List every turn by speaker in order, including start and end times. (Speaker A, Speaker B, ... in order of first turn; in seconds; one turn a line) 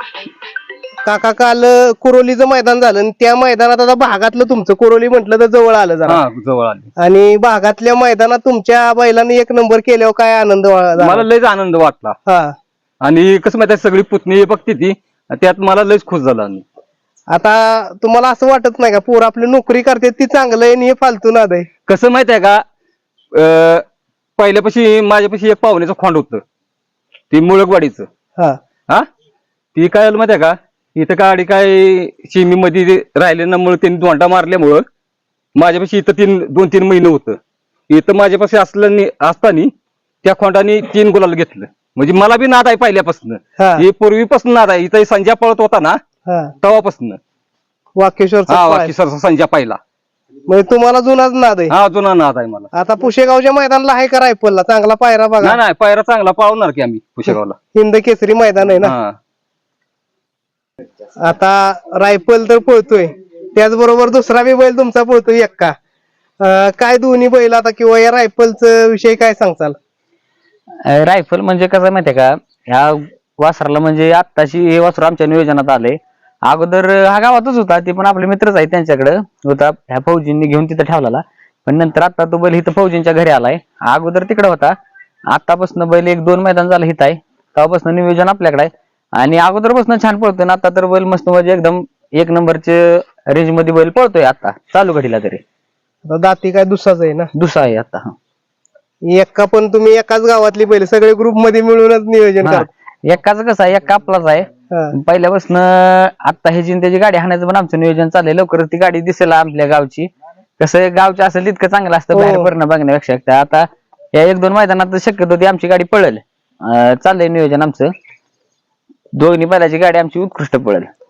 Speaker A: 1.1-6.2
Speaker B: 6.1-6.9
Speaker A: 7.0-11.3
Speaker B: 11.0-12.2
Speaker A: 12.3-12.5
Speaker B: 13.0-16.6
Speaker A: 17.3-21.7
Speaker B: 21.9-22.6
Speaker B: 23.3-23.9
Speaker B: 24.4-26.4
Speaker B: 27.3-28.1
Speaker B: 29.8-34.9
Speaker B: 35.6-39.7
Speaker B: 40.2-46.0
Speaker A: 43.6-43.9
Speaker B: 46.6-47.2
Speaker A: 48.0-49.0
Speaker B: 48.5-49.8
Speaker A: 50.5-51.8
Speaker B: 51.7-52.7
Speaker A: 52.7-55.6
Speaker B: 55.5-57.6
Speaker A: 57.3-59.0
Speaker B: 58.8-59.2
Speaker A: 61.2-65.7
Speaker A: 66.4-69.8
Speaker C: 70.9-84.8
Speaker C: 85.3-95.4
Speaker A: 96.1-97.3
Speaker C: 97.4-98.1
Speaker A: 99.1-102.7
Speaker C: 102.4-117.9
Speaker A: 112.1-112.5
Speaker C: 119.2-120.9